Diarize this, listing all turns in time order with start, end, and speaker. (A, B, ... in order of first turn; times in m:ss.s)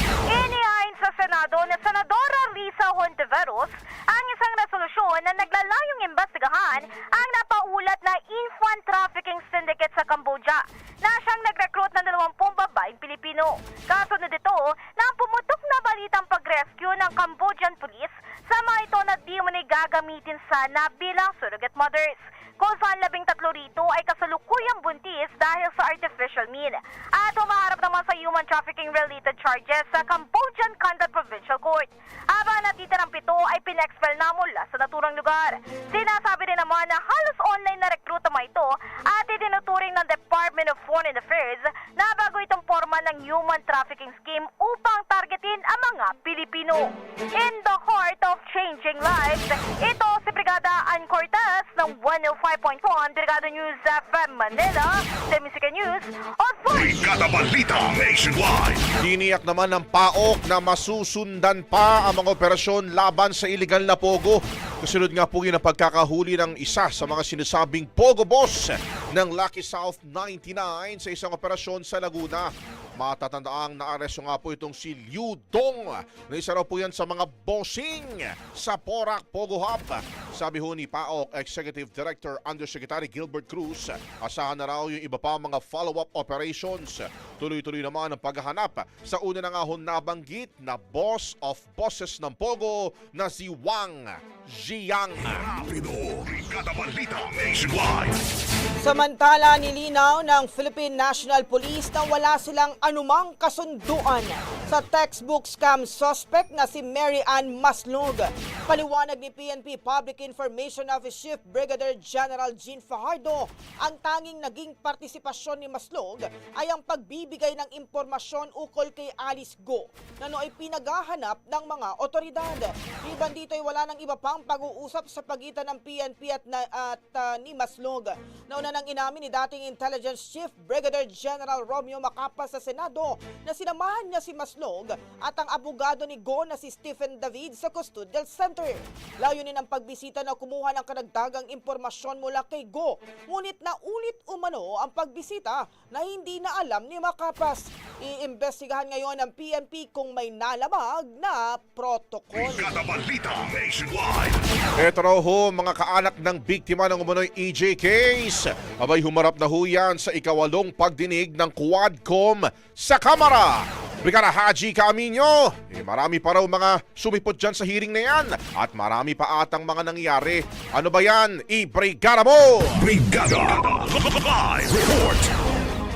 0:00.3-0:57.0 A
0:56.7-0:58.9 B
0:59.0-1:35.5 C
1:35.3-1:38.2 B
1:38.8-2:32.7 D
2:32.3-2:34.4 B
2:34.8-2:52.8 C
2:52.8-2:55.3 B